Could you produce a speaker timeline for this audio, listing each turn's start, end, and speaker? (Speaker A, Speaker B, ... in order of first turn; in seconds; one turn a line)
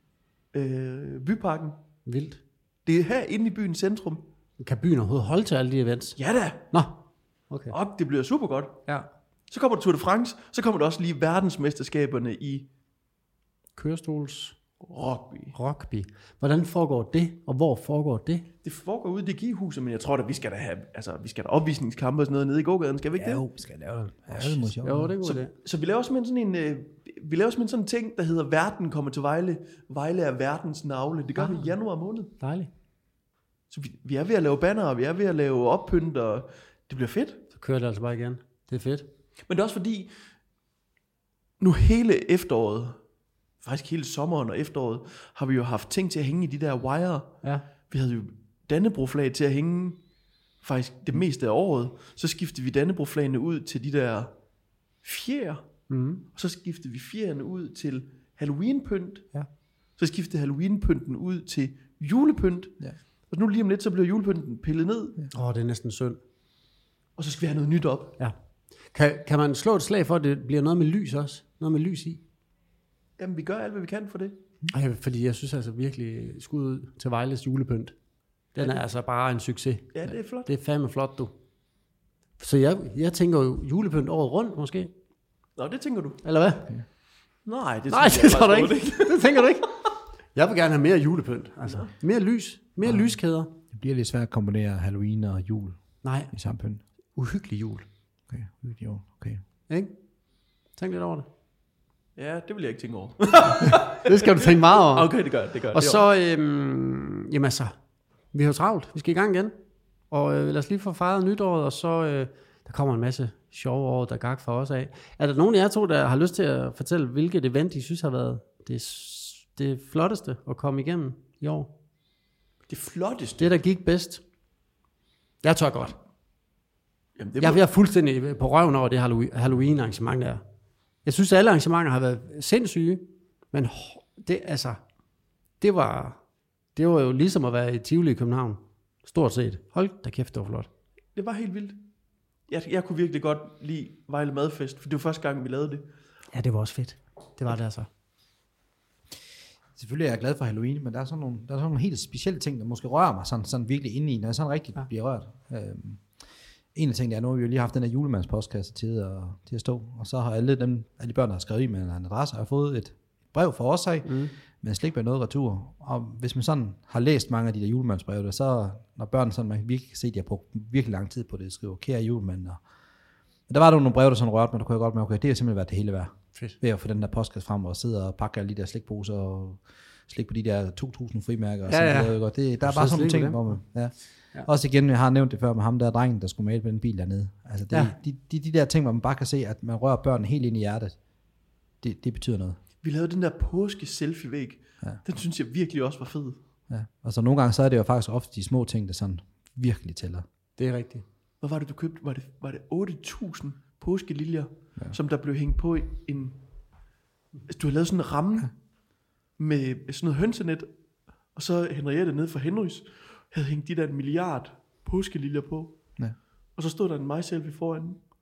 Speaker A: 0.5-1.8
Speaker B: 2.1-2.4
Speaker A: 2.9-4.2
Speaker B: 4.6-6.2
Speaker A: 6.2-6.7
Speaker B: 6.7-7.0
Speaker B: 7.5-7.8
Speaker A: 7.7-8.8
Speaker A: 9.5-12.7
Speaker B: 13.8-14.6
Speaker A: 14.8-15.6
Speaker B: 15.5-18.4
Speaker A: 18.6-23.4
Speaker C: 23.2-25.1
Speaker B: 24.4-25.5
Speaker A: 25.2-32.3
Speaker B: 31.4-31.8
Speaker B: 32.4-32.7
Speaker A: 33.7-37.4
Speaker B: 37.5-39.1
Speaker A: 39.5-40.1
Speaker A: 41.6-43.0
Speaker A: 43.6-50.0
Speaker A: 50.6-54.3
Speaker A: 55.0-55.6
Speaker B: 55.9-56.2
Speaker A: 56.3-59.3
Speaker A: 60.0-65.2
Speaker B: 65.3-66.2
Speaker A: 67.2-68.2
Speaker B: 68.9-72.2
Speaker A: 73.2-74.4
Speaker B: 74.7-77.9
Speaker B: 78.5-81.3
Speaker A: 79.9-80.5
Speaker B: 82.4-84.9
Speaker A: 85.6-86.2
Speaker B: 86.2-86.7
Speaker A: 87.5-89.5
Speaker B: 87.9-93.5
Speaker C: 92.8-93.1
Speaker C: 93.7-95.8
Speaker B: 96.0-96.3
Speaker C: 96.3-96.8
Speaker B: 97.2-97.9
Speaker C: 98.3-99.4
Speaker B: 100.8-101.3
Speaker A: 102.2-106.0
Speaker B: 103.7-105.1
Speaker B: 105.7-107.7
Speaker B: 108.3-109.5
Speaker B: 110.1-121.7
Speaker A: 122.7-123.6
Speaker B: 123.4-124.2
Speaker B: 125.4-126.0
Speaker A: 127.2-127.6
Speaker B: 127.4-130.4
Speaker B: 131.1-134.8
Speaker B: 135.6-136.2
Speaker B: 136.8-140.7
Speaker A: 141.1-141.8
Speaker A: 142.5-145.8
Speaker B: 146.3-147.9
Speaker C: 149.8-156.1
Speaker C: 156.8-172.6
Speaker B: 164.1-164.3
Speaker C: 173.5-191.0
Speaker B: 181.7-183.6
Speaker C: 191.8-192.6
Speaker A: 192.8-196.4
Speaker C: 196.7-200.2
Speaker B: 200.6-201.1
Speaker A: 201.4-206.4
Speaker A: 207.5-208.5
Speaker A: 209.4-210.7
Speaker A: 211.3-215.8
Speaker A: 216.6-218.0